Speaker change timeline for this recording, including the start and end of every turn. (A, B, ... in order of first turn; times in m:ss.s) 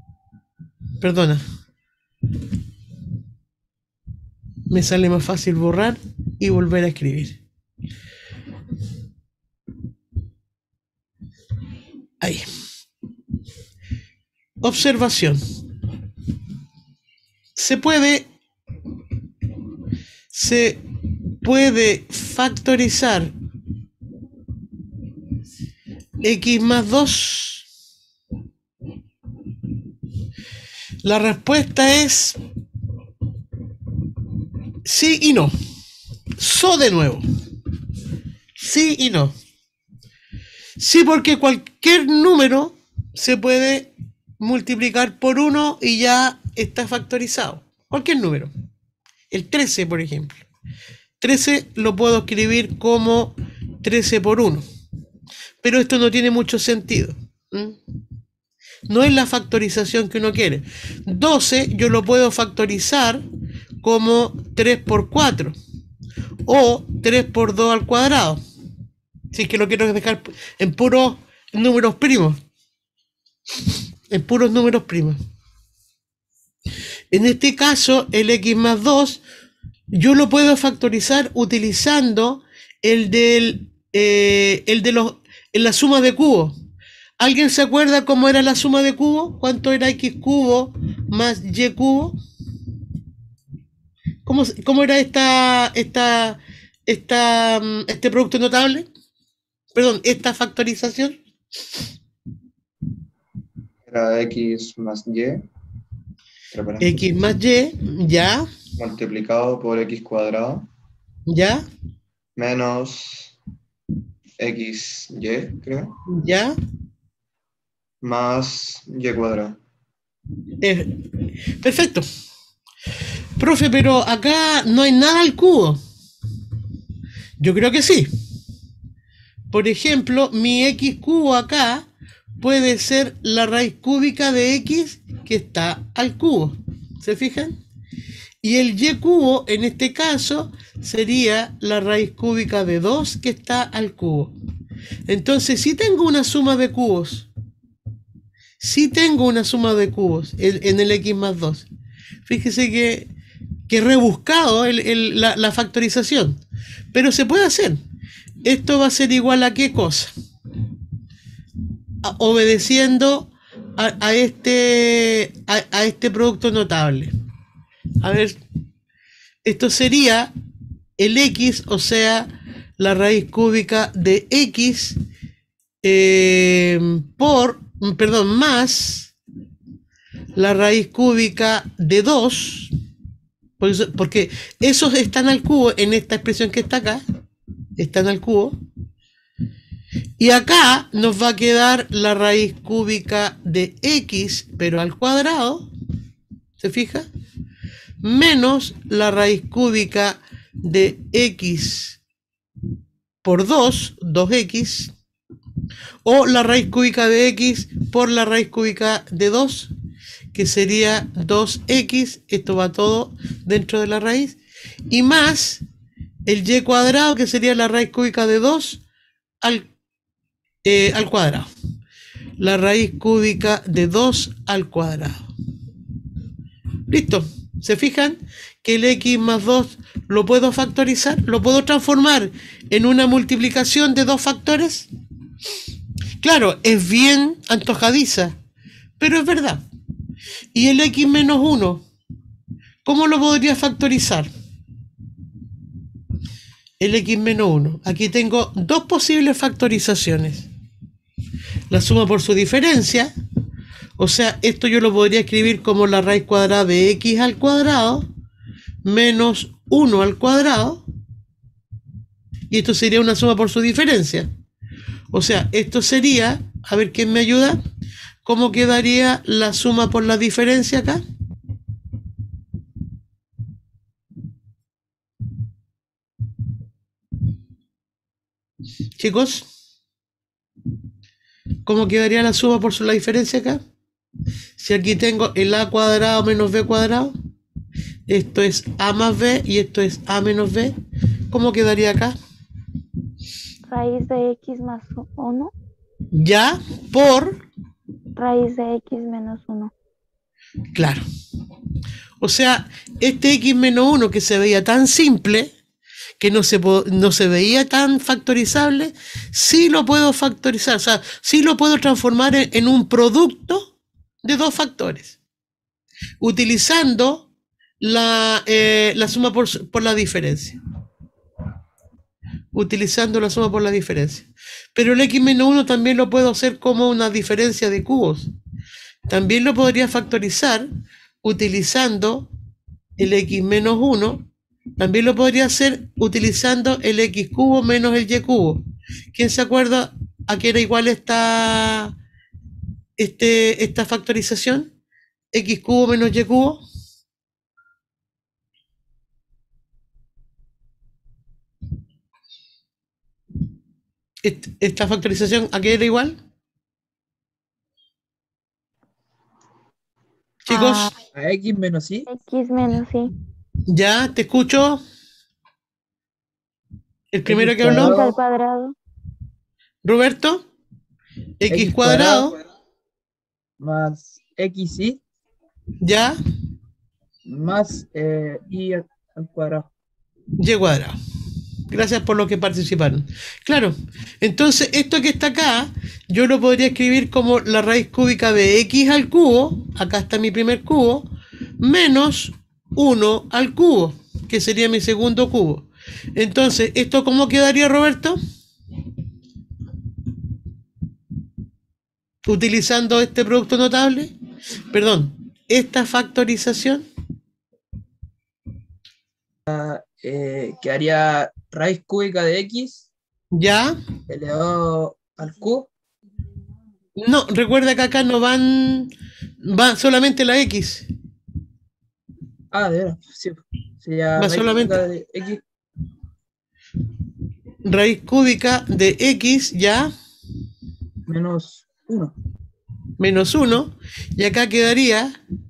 0:01.0-0:01.4 A
0:04.7-0:07.4 A
0:14.6-0:15.4 A
0:17.6-0:18.3 A
0:20.3-0:20.8 A
0:21.4-0:23.3 A
0:26.2-0:27.6 A
0:31.0-0:32.4 A
0:34.8-0:35.5 A
0:36.4-0:37.2 A
0:38.6-0:39.3 A
0:40.8-0:48.5 A
0:49.3-0:50.4 A
0:51.2-0:54.6 A
0:55.6-0:57.8 A
0:58.9-1:03.2 A
1:03.8-1:05.6 A
1:06.5-1:08.4 A
1:09.3-1:12.4 A
1:14.1-1:15.2 A
1:17.1-1:19.2 A
1:19.9-1:26.5 A
1:27.2-1:32.2 A
1:34.2-1:38.9 A
1:39.7-1:41.2 A
1:43.8-1:45.4 B
1:46.5-1:47.0 B
1:46.8-1:48.4 A
1:48.8-1:50.7 B
1:51.3-1:51.6 A
1:52.4-1:53.3 B
1:54.4-1:56.0 B
1:56.1-1:56.5 A
1:58.0-1:59.6 B
2:00.6-2:00.9 A
2:01.6-2:02.0 A
2:03.4-2:05.8 A
2:07.4-2:08.1 A
2:09.5-2:11.8 A
2:12.4-2:17.6 A
2:18.4-2:24.3 A
2:25.1-2:27.3 A
2:28.6-2:31.7 A
2:32.2-2:33.1 A
2:33.7-2:36.4 A
2:36.9-2:37.8 A
2:38.4-2:40.1 A
2:42.0-2:47.1 A
2:48.0-2:48.4 A
2:49.4-2:50.3 A
2:51.0-2:55.0 A
2:55.8-2:59.1 A
3:00.4-3:02.7 A
3:03.6-3:07.0 A
3:07.8-3:08.6 A
3:10.2-3:15.7 A
3:16.6-3:17.1 A
3:18.0-3:22.0 A
3:23.2-3:24.9 A
3:26.0-3:29.7 A
3:30.3-3:34.4 A
3:34.9-3:35.6 A
3:36.3-3:38.8 A
3:39.4-3:39.7 A
3:40.6-3:41.5 A
3:42.4-3:45.3 A
3:46.9-3:54.9 A
3:56.2-3:58.4 A
3:59.0-3:59.6 A
4:00.5-4:01.8 A
4:02.8-4:04.3 A
4:06.8-4:10.5 A
4:11.7-4:13.1 A
4:14.0-4:18.0 A
4:18.8-4:20.8 A
4:22.5-4:24.3 A
4:25.1-4:27.6 A
4:28.2-4:31.0 A
4:39.0-4:39.5 A
4:41.6-4:43.6 A
4:44.6-4:47.1 A
4:48.1-4:50.7 A
4:51.3-4:52.1 A
4:53.6-4:55.5 C
4:56.1-4:57.4 A
4:58.1-4:59.7 C
5:00.7-5:01.0 A
5:02.2-5:05.5 A
5:06.2-5:13.6 A
5:14.2-5:15.2 A
5:16.2-5:17.3 A
5:17.8-5:20.6 A
5:22.5-5:28.3 A
5:29.1-5:30.7 A
5:31.2-5:32.3 A
5:33.0-5:34.2 A
5:34.8-5:38.6 A
5:39.1-5:41.9 A
5:43.0-5:44.7 A
5:45.3-5:46.6 A
5:54.2-5:56.1 A
6:00.5-6:00.9 A
6:00.5-6:00.9 C
6:01.1-6:02.0 D
6:02.1-6:03.1 C
6:03.7-6:04.8 A
6:07.1-6:07.9 A
6:07.3-6:08.2 D
6:07.6-6:08.7 C
6:09.8-6:10.4 A
6:11.4-6:12.4 A
6:11.5-6:12.4 D
6:13.6-6:15.0 D
6:15.8-6:16.2 A
6:17.3-6:19.7 D
6:20.4-6:20.9 A
6:21.7-6:31.1 A
6:31.6-6:38.2 A
6:42.2-6:44.1 A
6:44.7-6:46.8 A
6:49.5-6:52.9 D
6:53.3-6:53.7 A
6:54.1-6:55.7 D
6:57.0-7:00.9 A
7:02.5-7:05.4 D
7:04.2-7:04.8 A
7:07.6-7:09.9 A
7:11.1-7:12.1 D
7:13.0-7:15.2 A